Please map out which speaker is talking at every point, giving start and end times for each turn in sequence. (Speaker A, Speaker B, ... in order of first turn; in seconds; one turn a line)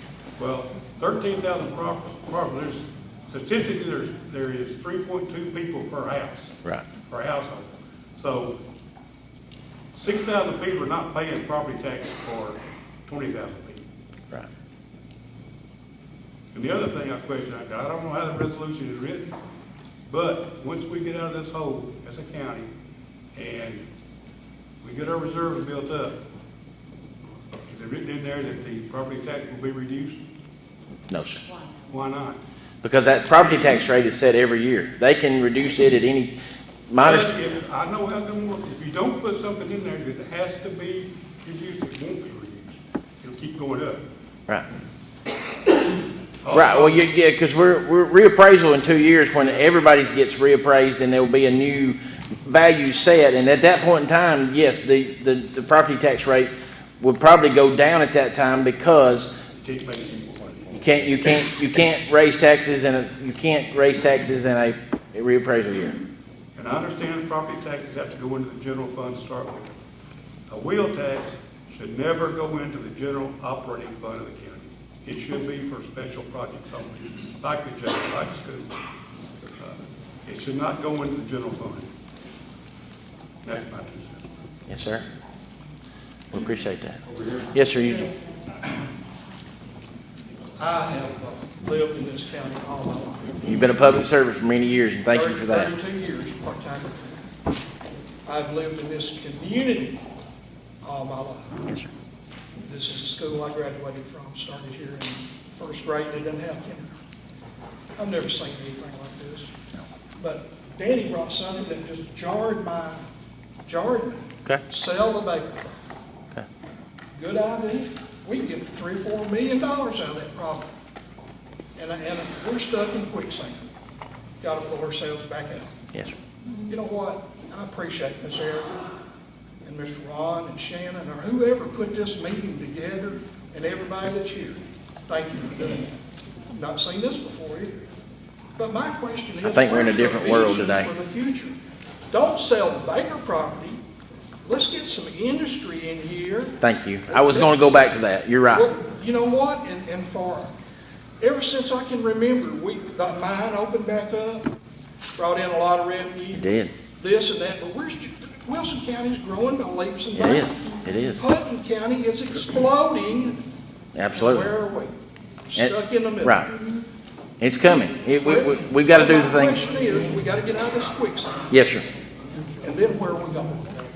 Speaker A: 0.4-6.5
Speaker A: 7.1-8.6
Speaker A: 9.9-13.8
Speaker A: 16.5-19.3
Speaker A: 20.1-22.7
Speaker A: 23.3-23.8
Speaker A: 24.8-26.2
Speaker A: 27.6-30.2
Speaker B: 31.1-31.4
Speaker A: 31.9-32.4
Speaker B: 32.8-36.4
Speaker B: 36.9-37.3
Speaker A: 37.0-44.0
Speaker A: 46.4-47.1
Speaker B: 46.5-59.4
Speaker A: 59.5-60.8
Speaker B: 60.7-66.0
Speaker A: 66.5-69.7
Speaker A: 70.5-78.8
Speaker A: 79.6-81.9
Speaker A: 83.4-84.2
Speaker B: 84.7-85.0
Speaker B: 86.3-87.0
Speaker A: 87.0-88.0
Speaker B: 87.5-88.1
Speaker C: 90.6-93.4
Speaker B: 93.5-95.7
Speaker C: 95.1-97.3
Speaker C: 98.2-100.0
Speaker C: 100.8-101.6
Speaker C: 102.6-107.0
Speaker C: 108.0-109.5
Speaker C: 110.2-113.1
Speaker C: 113.7-115.8
Speaker C: 117.1-120.7
Speaker C: 121.8-123.6
Speaker C: 124.4-125.7
Speaker C: 126.7-128.9
Speaker C: 129.6-136.0
Speaker C: 136.5-137.8
Speaker C: 138.6-141.6
Speaker B: 139.4-140.9
Speaker C: 142.1-143.8
Speaker C: 144.4-146.6
Speaker B: 146.6-148.7
Speaker C: 147.1-147.6
Speaker C: 148.5-150.5
Speaker C: 151.2-154.5
Speaker C: 155.2-163.4
Speaker B: 156.3-156.7
Speaker B: 160.1-161.2
Speaker B: 163.9-164.5
Speaker C: 164.2-164.9
Speaker C: 165.5-166.4
Speaker B: 165.5-166.5
Speaker B: 167.4-169.6
Speaker C: 168.2-171.5
Speaker B: 171.5-171.8
Speaker C: 172.6-173.7